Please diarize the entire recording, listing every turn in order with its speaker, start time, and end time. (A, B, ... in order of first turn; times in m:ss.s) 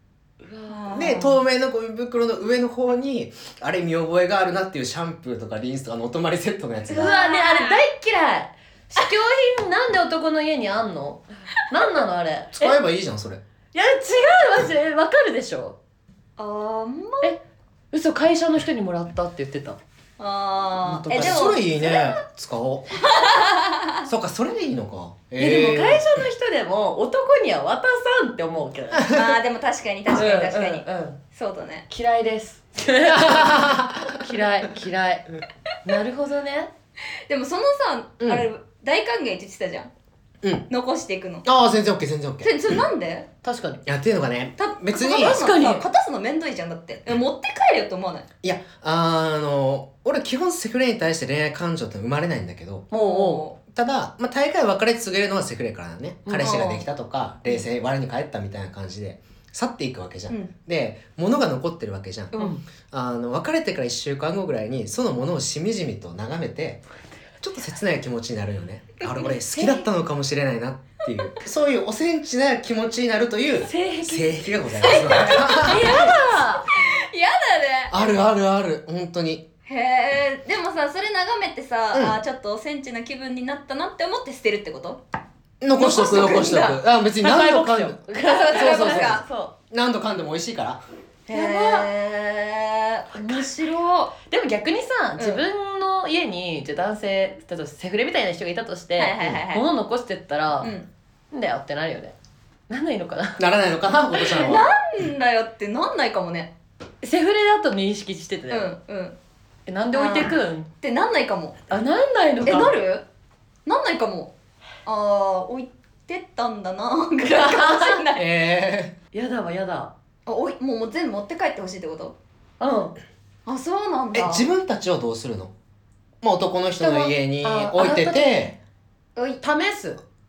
0:00.4-0:01.1 A
0:00.7-0:01.4 B
0:01.0-0:07.1 C
0:06.9-0:07.8 B
0:07.0-0:12.8 A
0:12.5-0:13.4 C
0:13.7-0:15.8 A
0:16.4-0:17.4 B
0:17.9-0:19.8 A
0:20.2-0:22.1 B
0:20.9-0:23.2 C
0:23.0-0:24.1 B
0:24.0-0:26.0 C
0:25.4-0:29.2 A
0:29.1-0:31.9 B
0:30.2-0:31.2 A
0:31.9-0:35.3 A
0:33.0-0:34.2 C
0:35.8-0:36.7 A
0:37.3-0:39.9 B
0:38.2-0:38.5 C
0:40.7-0:41.5 B
0:41.4-0:42.8 C
0:42.4-0:43.3 B
0:43.4-0:43.8 A
0:43.9-0:45.4 C
0:44.6-0:48.3 B
0:45.0-0:45.8 A
0:48.4-1:06.8 C
0:52.9-0:53.6 B
0:56.3-0:56.7 A
0:56.4-0:56.8 B
1:02.4-1:02.6 A
1:07.4-1:16.1 C
1:09.0-1:09.9 B
1:13.6-1:16.7 A
1:14.8-1:18.0 B
1:17.9-1:19.4 C
1:19.7-1:25.0 B
1:25.6-1:30.8 C
1:25.8-1:26.8 B
1:27.2-1:29.5 A
1:28.2-1:29.2 B
1:31.3-1:34.1 B
1:31.3-1:31.9 A
1:33.1-1:33.6 A
1:34.2-1:40.7 A
1:39.0-1:39.6 B
1:40.6-1:40.9 B
1:41.3-1:42.2 A
1:42.7-1:43.4 A
1:43.4-1:44.7 C
1:44.1-1:46.5 B
1:47.0-1:48.7 A
1:48.5-1:49.2 B
1:49.7-1:50.7 A
1:49.9-1:51.6 B
1:51.7-1:52.7 A
1:52.4-1:53.0 B
1:53.7-1:54.3 B
1:54.8-1:58.2 B
1:57.3-1:58.0 A
1:58.2-1:59.0 C
1:59.1-1:59.9 A
2:00.3-2:02.2 B
2:02.6-2:03.0 A
2:03.5-2:04.5 B
2:04.1-2:05.5 C
2:06.2-2:08.5 C
2:06.8-2:08.5 A
2:09.4-2:10.0 A